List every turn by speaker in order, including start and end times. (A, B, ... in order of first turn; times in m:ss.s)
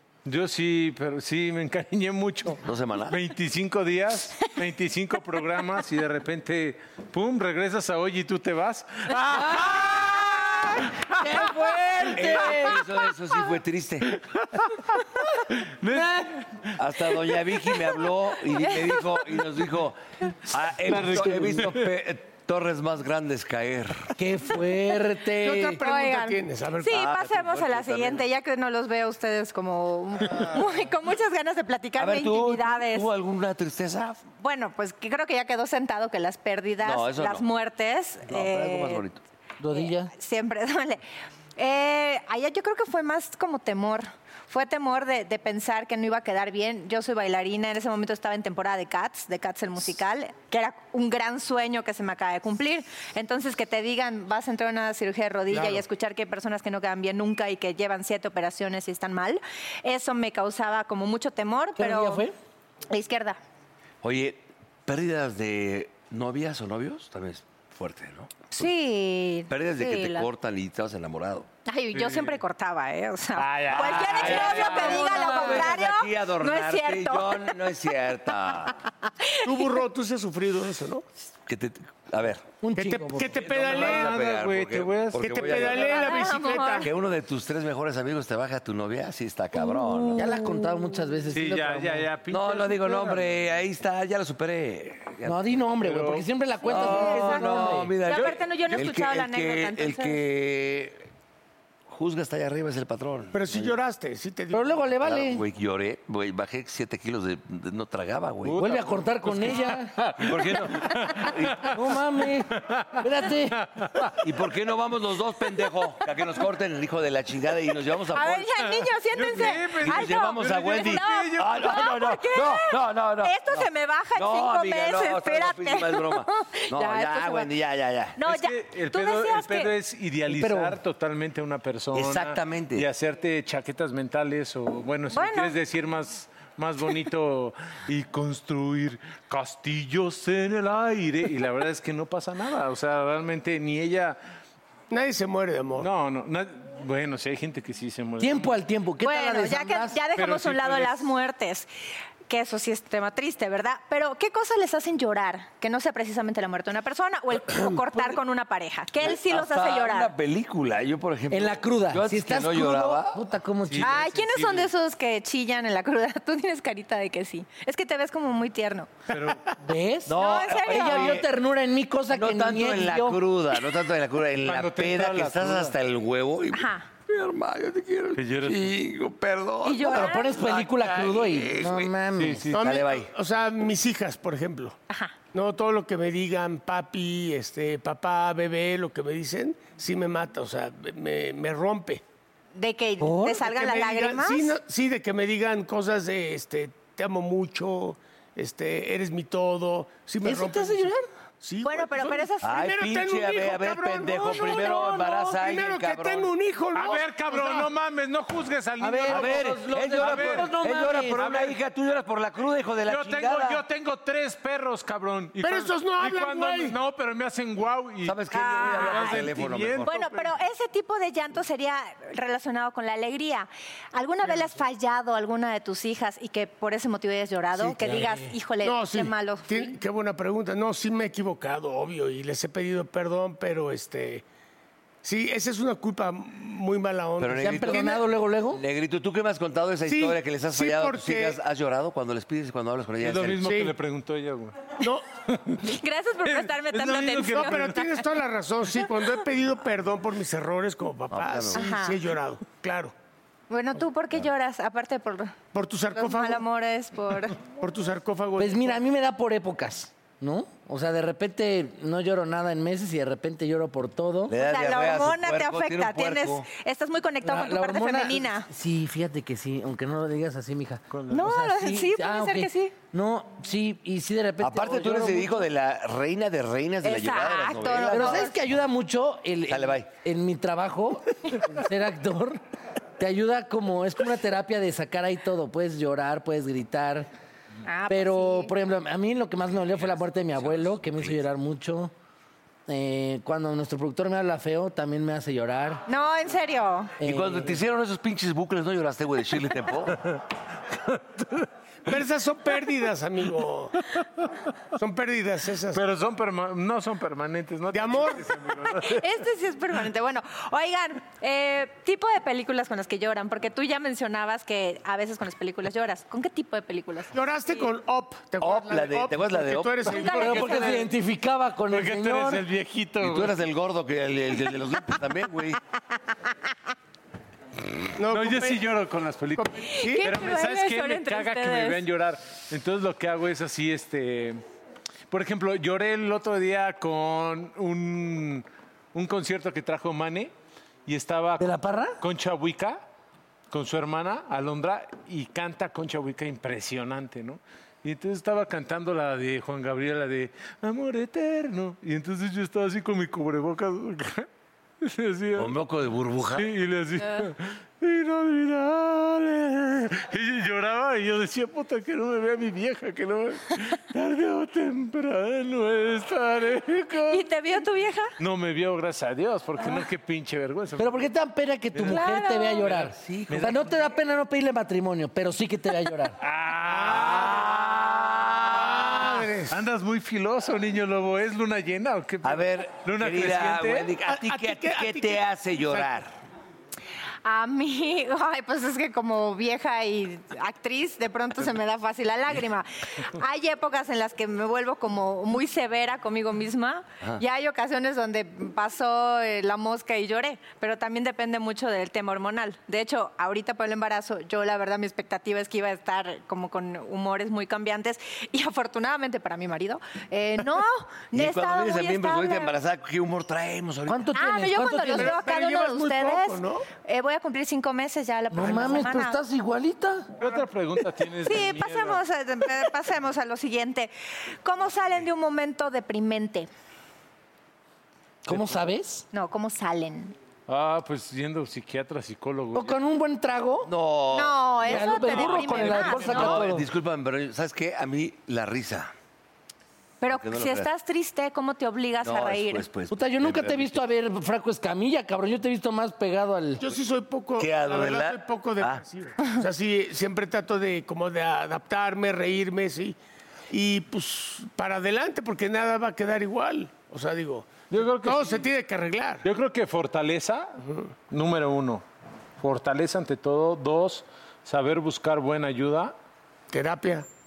0:00.2-0:12.6 A
0:02.6-0:03.2 B
0:09.2-0:12.8 C
0:12.1-0:14.1 B
0:14.1-0:17.1 A
0:15.9-0:16.3 C
0:16.8-0:24.1 B
0:20.8-0:21.9 A
0:24.2-0:25.8 C
0:25.4-0:26.9 D
0:25.8-0:33.1 E
0:26.8-0:28.2 B
0:32.0-0:34.2 B
0:34.4-0:39.0 E
0:36.8-0:37.4 B
0:38.3-0:39.2 B
0:39.6-0:40.1 C
0:39.7-0:41.0 E
0:41.6-1:02.2 E
1:01.8-1:02.3 C
1:02.9-1:03.4 E
1:04.0-1:08.3 B
1:08.5-1:10.3 E
1:09.5-1:11.5 B
1:11.6-1:17.6 E
1:11.9-1:12.4 A
1:13.4-1:15.2 A
1:13.6-1:18.7 B
1:14.7-1:15.6 C
1:19.2-1:19.7 E
1:19.4-1:21.0 D
1:21.4-1:22.6 B
1:22.6-1:23.4 C
1:22.7-1:24.2 D
1:23.3-1:26.1 B
1:23.5-1:25.4 A
1:25.2-1:26.9 D
1:25.5-1:26.9 E
1:26.8-1:30.3 B
1:29.6-1:32.1 C
1:31.3-1:33.3 A
1:32.3-1:35.4 B
1:35.2-1:37.9 C
1:35.8-1:36.2 A
1:36.6-1:40.2 E
1:36.7-1:41.1 B
1:41.9-1:43.8 B
1:43.3-1:44.8 D
1:44.5-1:45.4 C
1:45.0-1:48.7 B
1:48.4-1:51.8 A
1:48.5-1:50.0 C
1:50.2-1:51.8 B
1:51.7-1:53.6 C
1:52.5-1:54.2 A
1:54.2-1:58.6 B
1:58.1-2:07.5 E
1:59.1-2:01.8 A
1:59.5-2:08.2 B
2:08.2-2:09.7 E
2:08.2-2:24.2 A
2:10.3-2:10.8 C
2:11.9-2:12.8 B
2:15.1-2:15.5 E
2:24.9-2:25.9 D
2:25.8-2:28.5 A
2:28.2-2:30.0 C
2:29.0-2:31.7 E
2:30.2-2:31.1 A
2:32.3-2:40.1 E
2:37.5-2:38.2 B
2:39.0-2:43.2 B
2:41.3-2:44.1 C
2:43.7-2:44.7 A
2:43.8-2:48.9 E
2:49.1-2:49.5 A
2:49.6-2:53.2 C
2:50.0-2:51.3 B
2:50.2-2:51.2 E
2:52.1-3:01.9 B
2:54.4-2:55.8 A
2:56.5-2:56.9 E
2:58.2-2:58.7 A
2:59.6-3:00.4 E
2:59.8-3:02.5 C
3:02.2-3:02.6 A
3:02.5-3:04.8 D
3:02.5-3:03.1 B
3:04.9-3:05.1 E
3:05.3-3:12.0 D
3:12.5-3:14.5 E
3:13.0-3:13.4 C
3:13.5-3:27.7 D
3:20.2-3:21.1 C
3:21.6-3:22.7 E
3:22.4-3:26.3 B
3:24.3-3:24.7 E
3:24.6-3:25.4 C
3:26.7-3:30.6 A
3:28.8-3:31.3 C
3:29.1-3:33.6 B
3:31.1-3:31.6 A
3:32.8-3:40.3 A
3:35.4-3:36.8 D
3:38.0-3:39.9 B
3:38.3-3:39.3 E
3:39.8-3:49.8 E
3:47.6-3:48.0 D
3:47.8-3:48.3 C
3:48.6-3:54.2 D
3:55.0-3:58.0 D
3:57.2-4:03.5 B
3:57.4-3:58.6 C
3:59.8-4:01.4 D
4:03.0-4:05.7 A
4:03.4-4:03.7 D
4:04.8-4:05.0 D
4:05.6-4:07.8 E
4:06.2-4:07.9 A
4:07.2-4:12.9 D
4:11.1-4:11.6 B
4:11.5-4:12.0 E
4:13.5-4:15.4 E
4:15.5-4:16.4 D
4:15.9-4:17.4 E
4:17.6-4:18.8 D
4:18.4-4:24.3 C
4:24.3-4:26.5 B
4:24.4-4:28.5 E
4:27.2-4:35.4 C
4:30.9-4:31.2 A
4:31.1-4:32.7 E
4:34.4-4:38.3 B
4:36.8-4:38.4 E
4:37.8-4:42.4 C
4:39.5-4:39.9 B
4:43.0-4:47.1 C
4:47.6-4:48.5 E
4:47.9-4:51.9 C
4:49.8-4:51.2 B
4:52.7-4:55.8 C
4:55.9-4:56.9 E
4:57.0-4:57.6 C
4:57.0-5:00.0 B
5:00.8-5:01.5 A
5:01.9-5:03.8 D
5:04.8-5:05.8 D
5:05.7-5:09.0 A
5:07.7-5:08.3 D
5:08.7-5:17.6 E
5:17.1-5:20.8 D
5:18.4-5:20.0 B
5:19.9-5:20.9 E
5:20.0-5:22.4 C
5:21.7-5:23.4 A
5:23.0-5:25.6 B
5:27.9-5:28.6 D
5:28.1-5:34.4 A
5:29.4-5:30.0 D
5:29.7-5:31.8 E
5:35.1-5:40.3 A
5:40.8-5:42.8 A
5:41.4-5:42.0 C
5:43.5-5:54.3 A
5:54.8-5:55.6 A
5:55.4-5:56.5 B
5:56.3-6:07.2 A
6:07.1-6:08.1 E
6:08.2-6:11.0 A
6:10.8-6:16.2 C
6:11.7-6:12.0 A
6:11.9-6:12.6 E
6:12.6-6:13.7 A
6:12.9-6:13.5 B
6:16.2-6:17.6 A
6:16.7-6:19.1 B
6:18.5-6:19.5 D
6:18.8-6:23.9 A
6:22.2-6:26.1 B
6:24.0-6:25.9 D
6:27.2-6:52.5 E
6:51.1-6:54.1 B
6:53.8-6:55.2 C
6:54.1-6:59.2 E
6:54.9-6:56.7 D
6:58.3-7:00.1 C
7:00.2-7:02.0 A
7:01.2-7:03.9 E
7:04.4-7:06.5 E
7:08.2-7:09.0 C
7:09.1-7:10.1 E
7:10.5-7:12.8 A
7:12.5-7:13.7 C
7:13.6-7:18.9 B
7:14.1-7:16.4 E
7:14.6-7:16.7 C
7:20.0-7:22.6 E
7:20.1-7:20.7 B
7:22.0-7:23.8 B
7:22.9-7:26.6 C
7:26.6-7:33.0 D
7:27.4-7:28.8 B
7:33.5-7:39.2 D
7:37.7-7:38.5 A
7:39.2-7:41.8 A
7:42.4-7:45.9 A
7:46.5-7:47.1 D